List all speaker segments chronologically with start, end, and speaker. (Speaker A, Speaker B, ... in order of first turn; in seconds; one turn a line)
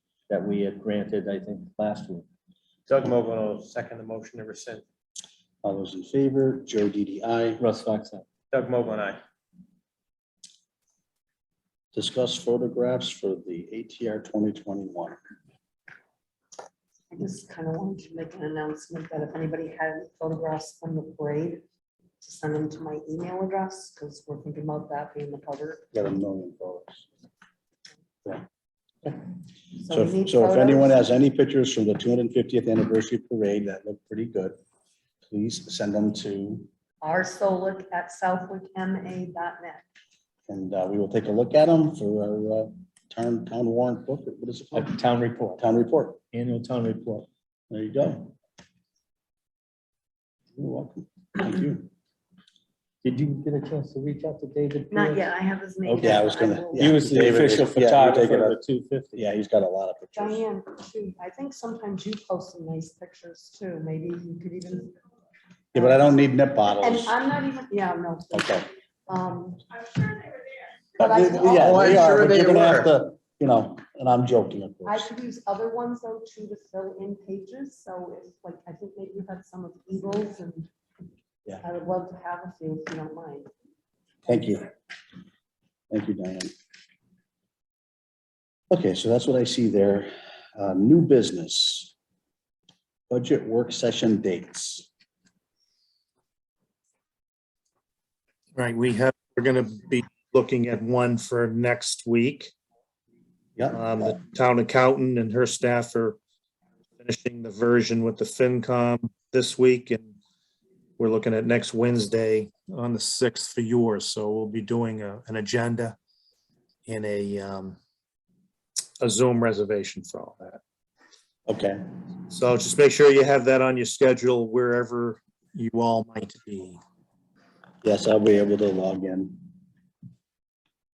Speaker A: 0.3-2.2
Speaker B: 2.9-4.8
Speaker C: 5.6-7.6
Speaker A: 7.6-8.2
Speaker B: 8.5-9.2
Speaker C: 11.9-15.2
Speaker D: 17.1-21.6
Speaker D: 22.2-25.8
Speaker C: 25.9-27.0
Speaker D: 29.8-30.9
Speaker C: 29.9-34.6
Speaker C: 35.2-36.7
Speaker D: 37.0-39.8
Speaker C: 40.5-44.9
Speaker A: 44.7-45.6
Speaker C: 45.6-46.2
Speaker A: 46.3-47.3
Speaker C: 47.7-48.3
Speaker C: 50.5-51.9
Speaker A: 53.0-55.2
Speaker D: 54.9-57.0
Speaker C: 55.8-58.6
Speaker A: 56.8-59.2
Speaker C: 59.2-60.4
Speaker D: 60.1-64.9
Speaker C: 65.7-67.2
Speaker D: 66.8-70.1
Speaker C: 68.3-68.7
Speaker D: 71.0-72.0
Speaker C: 71.0-75.1
Speaker B: 71.3-72.9
Speaker D: 74.8-80.7
Speaker D: 81.6-83.5
Speaker C: 84.2-84.7
Speaker C: 85.9-86.5
Speaker C: 88.7-91.9
Speaker C: 93.1-94.9
Speaker E: 98.5-102.5
Speaker C: 103.5-103.8
Speaker E: 103.7-106.2
Speaker E: 107.0-110.2
Speaker E: 111.0-116.0
Speaker E: 116.9-117.8
Speaker E: 119.0-120.6
Speaker C: 121.5-121.8
Speaker E: 122.3-126.8
Speaker C: 127.8-129.5